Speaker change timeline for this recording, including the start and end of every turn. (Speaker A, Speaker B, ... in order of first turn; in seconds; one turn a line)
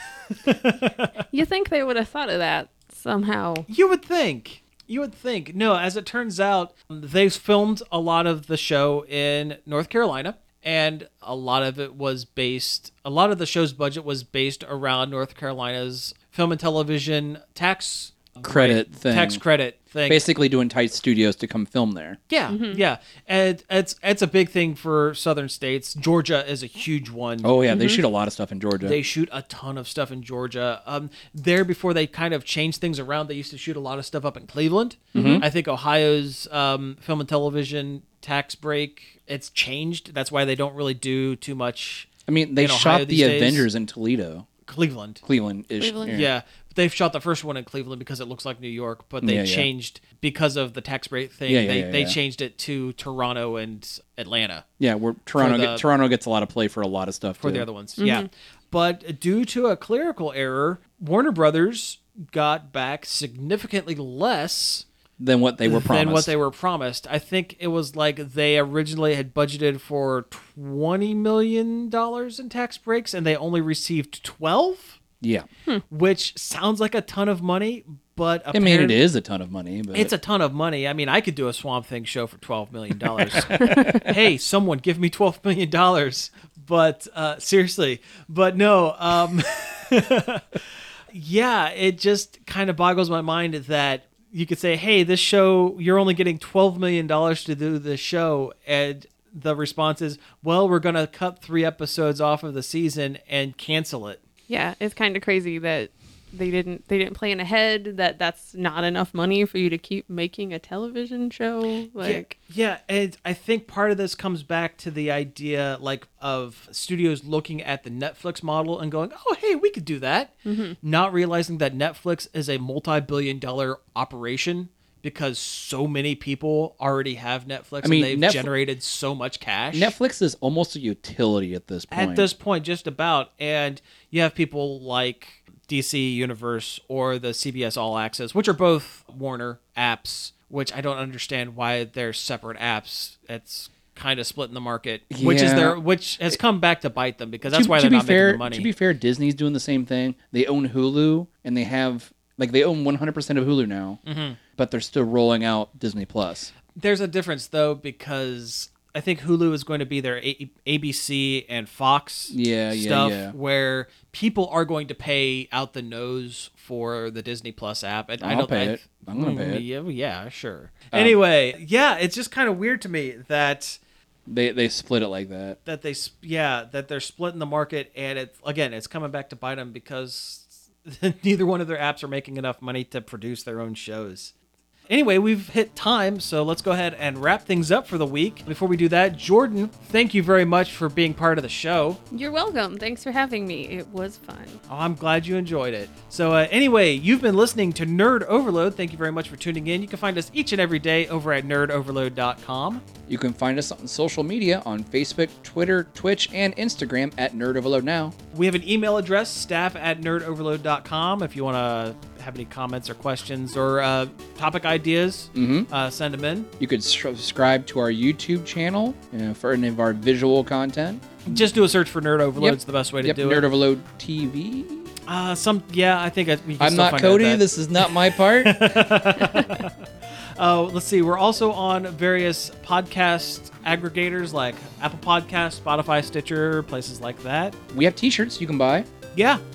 Speaker A: 0.3-1.1
Speaker B: 1.3-3.7
Speaker A: 3.7-20.2
Speaker C: 18.4-19.4
Speaker C: 20.1-22.2
Speaker A: 22.3-27.5
Speaker B: 22.5-22.8
Speaker C: 27.4-29.0
Speaker B: 27.7-28.0
Speaker A: 28.8-43.7
Speaker B: 35.1-35.5
Speaker C: 35.1-35.5
Speaker C: 42.3-44.5
Speaker A: 44.6-45.2
Speaker C: 45.2-46.3
Speaker B: 45.8-46.2
Speaker A: 46.1-54.7
Speaker C: 49.2-49.7
Speaker C: 51.5-52.2
Speaker C: 54.8-57.7
Speaker A: 55.4-55.9
Speaker A: 57.4-64.8
Speaker B: 58.0-58.3
Speaker C: 65.2-66.3
Speaker A: 65.6-75.0
Speaker C: 75.2-75.5
Speaker A: 75.9-79.0
Speaker C: 78.5-80.1
Speaker A: 79.9-104.2
Speaker C: 83.2-84.1
Speaker B: 104.5-112.3
Speaker A: 112.0-129.9
Speaker B: 120.5-120.8
Speaker C: 127.8-128.5
Speaker C: 129.7-132.3
Speaker A: 131.9-148.7
Speaker C: 145.1-145.8
Speaker C: 147.5-154.0
Speaker A: 154.1-154.4
Speaker C: 154.6-156.5
Speaker A: 156.8-173.8
Speaker C: 162.3-163.3
Speaker C: 168.2-169.6
Speaker C: 170.9-171.2
Speaker C: 174.3-175.6
Speaker A: 175.7-184.3
Speaker A: 184.9-192.0
Speaker B: 192.1-194.6
Speaker A: 194.7-202.8
Speaker C: 203.1-208.2
Speaker A: 208.3-216.5
Speaker C: 215.3-215.7
Speaker C: 216.6-221.5
Speaker A: 221.3-223.5
Speaker C: 222.4-224.9
Speaker A: 225.1-229.8
Speaker C: 226.6-228.7
Speaker A: 230.4-237.6
Speaker C: 237.7-238.9
Speaker A: 239.1-239.4